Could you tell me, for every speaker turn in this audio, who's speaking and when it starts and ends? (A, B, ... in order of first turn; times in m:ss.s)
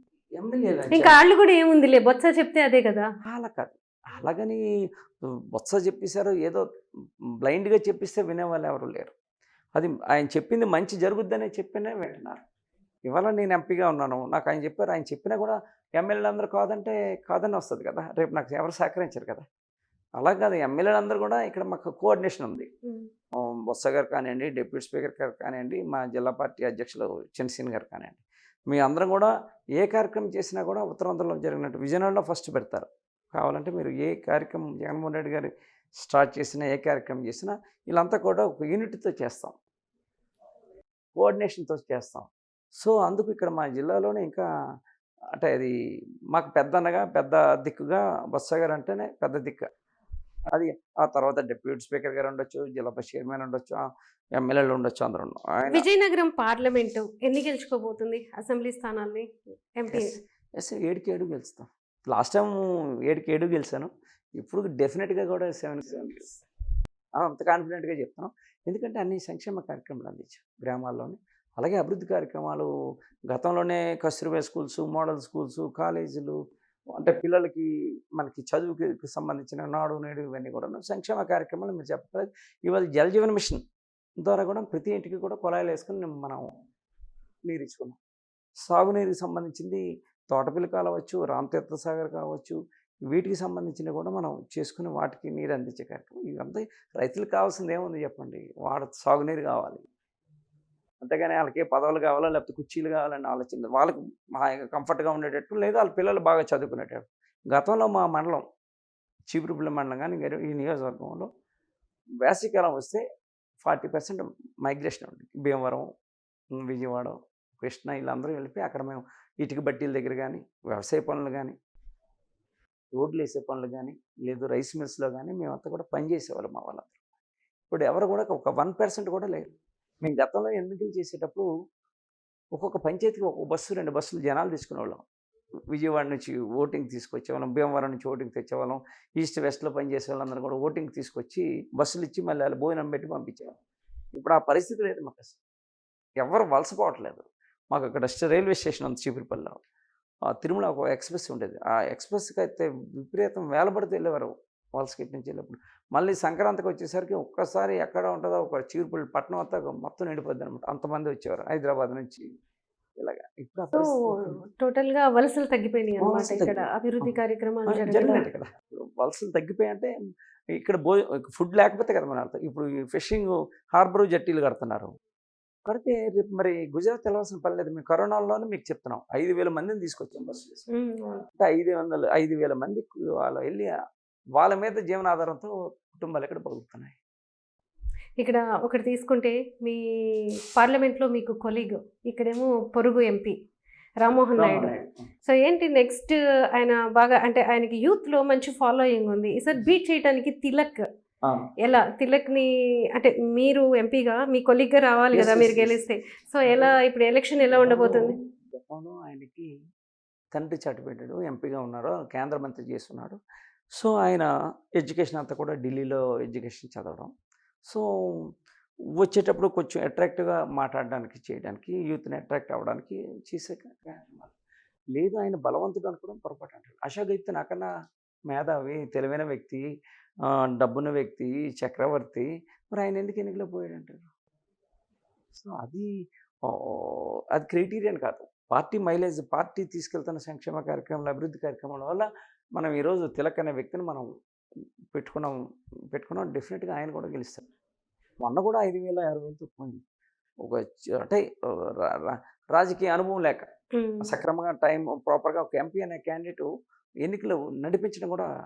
0:00.4-0:01.2 A
0:00.9-0:03.1 B
0:03.3-0:04.6 A
0:05.5-0:06.6 A
0:07.4-0:09.1 A
0:09.8-0:12.4 A
0:13.1-0:19.4 A
0:20.2-0:22.7 A
0:23.3-0:39.6 A
0:41.2-0:42.3 A
0:42.8-0:44.4 A
0:45.4-0:45.7 A
0:46.3-0:49.7 A
0:50.5-0:53.8 A
0:54.4-0:55.9 A
0:55.7-1:00.1 B
0:59.9-1:06.4 A
1:07.2-1:12.7 A
1:13.3-1:16.4 A
1:17.0-1:23.6 A
1:24.2-1:26.4 A
1:27.4-1:28.0 A
1:28.7-1:32.6 A
1:33.1-1:39.8 A
1:41.0-1:48.4 A
1:49.3-1:51.3 A
1:52.2-1:53.0 A
1:53.6-1:55.9 A
1:56.6-2:01.6 A
2:03.0-2:07.0 A
2:07.7-2:09.5 A
2:10.0-2:11.5 A
2:12.5-2:15.0 A
2:15.7-2:23.6 A
2:24.2-2:25.4 A
2:26.2-2:29.6 A
2:30.4-2:42.3 A
2:43.0-2:44.3 A
2:44.6-2:48.3 B
2:46.0-2:47.1 A
2:47.7-2:49.9 A
2:50.5-2:54.9 A
2:55.7-3:00.7 A
3:00.7-3:01.2 B
3:01.4-3:03.7 A
3:04.4-3:07.0 A
3:08.2-3:13.3 B
3:14.0-3:20.9 B
3:14.4-3:15.0 A
3:21.6-3:28.2 B
3:25.1-3:25.8 A
3:26.5-3:26.8 A
3:27.5-3:29.5 A
3:30.3-3:33.2 A
3:33.8-3:37.1 A
3:37.7-3:38.2 A
3:39.0-3:44.3 A
3:45.0-3:47.7 A
3:48.3-3:49.6 A
3:50.6-3:54.1 A
3:55.4-3:55.9 A
3:56.5-4:02.1 A
4:02.6-4:04.1 A
4:04.9-4:05.4 A
4:05.9-4:07.4 A
4:08.2-4:09.8 A
4:10.4-4:11.2 A
4:11.8-4:13.5 A
4:13.8-4:14.1 B
4:14.0-4:16.5 A
4:17.0-4:18.3 A